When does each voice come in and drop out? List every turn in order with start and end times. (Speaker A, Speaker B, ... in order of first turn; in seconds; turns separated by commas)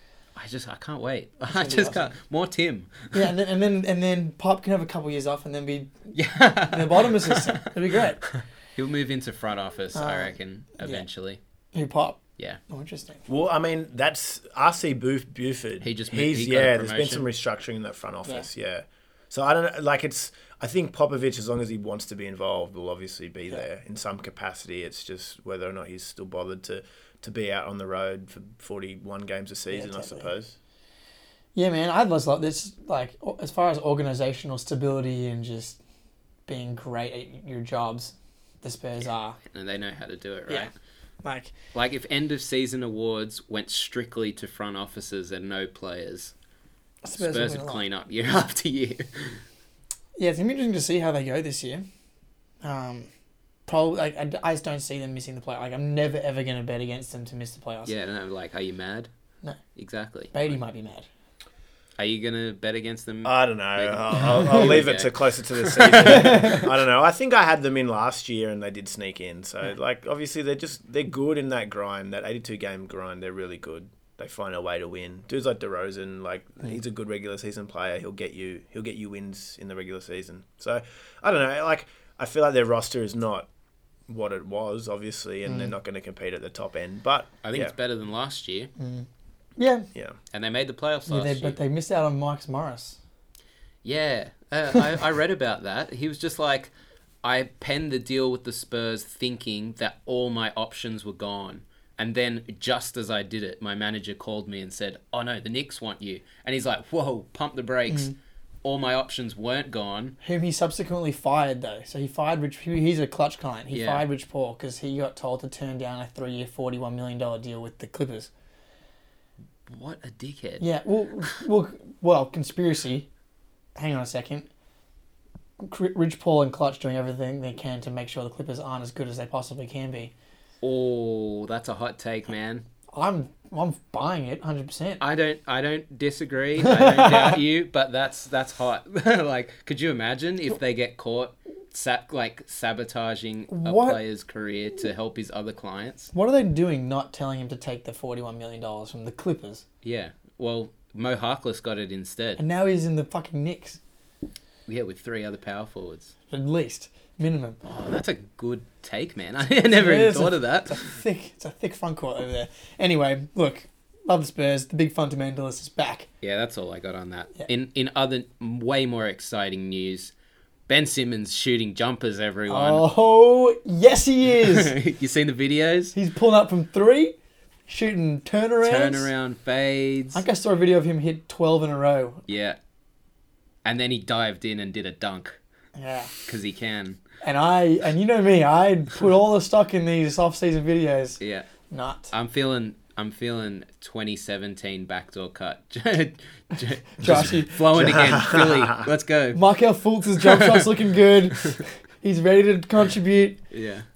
Speaker A: 0.3-3.3, Speaker B: 1.5-2.1, Speaker B: 3.1-6.1, Speaker A: 6.1-11.4, Speaker B: 6.7-8.2, Speaker B: 9.9-11.0, Speaker B: 11.7-13.2, Speaker C: 13.3-30.5, Speaker A: 15.8-17.3, Speaker B: 29.7-30.3, Speaker B: 31.5-35.8, Speaker B: 36.5-39.4, Speaker A: 39.5-40.7, Speaker B: 41.2-41.5, Speaker A: 41.7-46.3, Speaker B: 47.0-47.8, Speaker A: 47.2-49.4, Speaker B: 50.1-51.8, Speaker B: 52.6-53.1, Speaker B: 53.7-57.9, Speaker A: 57.9-59.1, Speaker A: 59.8-60.5, Speaker B: 60.3-61.1, Speaker A: 62.0-66.6, Speaker C: 63.2-83.5, Speaker B: 64.1-64.7, Speaker B: 66.1-66.6, Speaker C: 84.1-87.7, Speaker B: 85.5-85.7, Speaker A: 87.4-88.7, Speaker B: 88.8-89.9, Speaker A: 90.3-91.6, Speaker B: 91.1-93.0, Speaker A: 93.8-96.7, Speaker A: 97.2-108.1, Speaker A: 108.6-110.2, Speaker B: 110.2-118.3, Speaker A: 113.7-114.0, Speaker A: 119.7-120.6, Speaker B: 120.6-123.1, Speaker B: 123.8-124.5, Speaker B: 125.6-130.1, Speaker A: 130.6-132.7, Speaker B: 132.9-135.0, Speaker A: 135.0-146.1, Speaker B: 136.8-137.3, Speaker B: 143.5-144.0, Speaker B: 146.1-149.6, Speaker A: 149.8-152.4, Speaker B: 152.4-153.8, Speaker A: 154.7-156.1, Speaker B: 156.3-157.6, Speaker A: 157.6-161.0, Speaker B: 159.7-166.1, Speaker A: 166.2-170.1, Speaker A: 170.7-172.9, Speaker B: 172.5-174.7, Speaker A: 174.3-175.9, Speaker B: 175.9-177.2, Speaker B: 177.7-179.1, Speaker A: 178.6-180.2, Speaker B: 180.1-182.2, Speaker A: 182.3-182.6, Speaker A: 183.6-185.4, Speaker B: 185.8-186.1, Speaker A: 186.2-187.0, Speaker B: 187.2-192.1, Speaker A: 191.2-191.5, Speaker A: 192.1-199.4, Speaker B: 197.0-197.6, Speaker C: 197.1-198.9, Speaker B: 199.3-203.4, Speaker A: 200.2-200.7, Speaker A: 203.5-203.8